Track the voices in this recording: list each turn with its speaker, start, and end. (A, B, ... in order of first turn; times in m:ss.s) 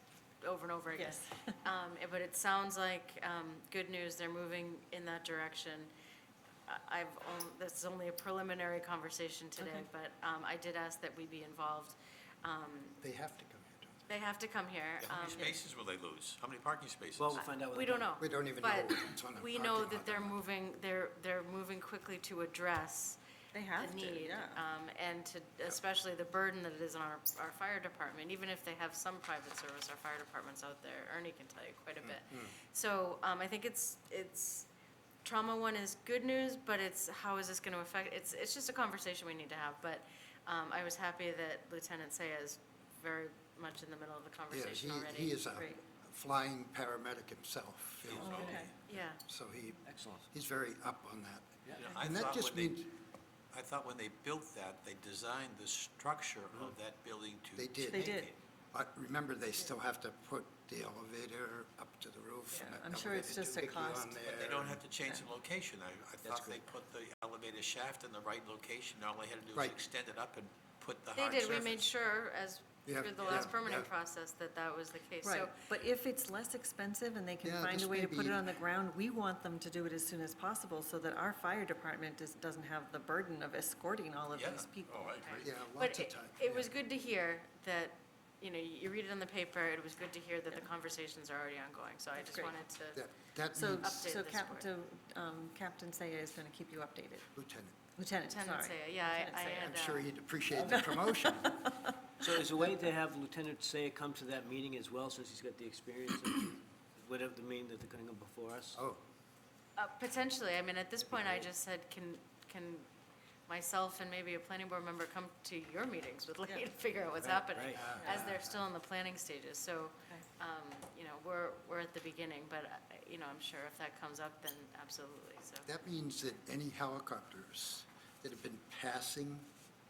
0:00.4-0:05.9 A
0:00.9-0:01.6 B
0:06.7-0:13.0 A
0:09.6-0:09.9 B
0:13.0-0:14.1 C
0:14.1-0:15.6 A
0:15.0-0:17.4 D
0:17.2-0:18.1 E
0:17.4-0:23.2 A
0:18.2-0:20.4 C
0:23.5-0:24.6 B
0:23.8-0:34.7 A
0:32.0-0:32.6 C
0:35.2-0:45.4 A
0:44.5-0:48.6 C
0:45.5-0:45.8 B
0:48.0-0:48.8 D
0:48.2-0:48.7 B
0:48.9-0:49.2 A
0:49.2-0:52.9 C
0:49.9-0:50.3 E
0:51.8-0:52.9 D
0:53.5-0:58.3 D
0:57.6-1:04.8 C
0:57.9-0:58.3 B
1:02.5-1:04.3 B
1:04.2-1:11.9 D
1:06.2-1:06.6 E
1:09.5-1:09.8 C
1:11.2-1:15.5 A
1:12.9-1:13.9 C
1:13.2-1:13.5 D
1:15.2-1:25.1 B
1:17.4-1:18.5 C
1:24.3-1:25.4 D
1:25.2-1:33.0 A
1:25.4-1:26.7 C
1:32.2-1:32.5 B
1:32.9-1:34.0 C
1:33.5-1:37.3 B
1:33.8-1:34.7 A
1:37.3-1:37.8 C
1:38.0-1:39.8 B
1:38.3-1:40.1 A
1:39.6-1:41.6 C
1:40.5-1:40.9 E
1:40.7-1:41.9 B
1:42.2-1:48.8 E
1:48.8-1:49.0 C
1:49.8-1:52.9 A
1:51.0-1:51.5 E
1:53.5-2:05.7 A
1:57.1-1:57.9 E
1:57.7-1:58.6 C
1:58.0-1:58.3 B
2:05.6-2:09.5 C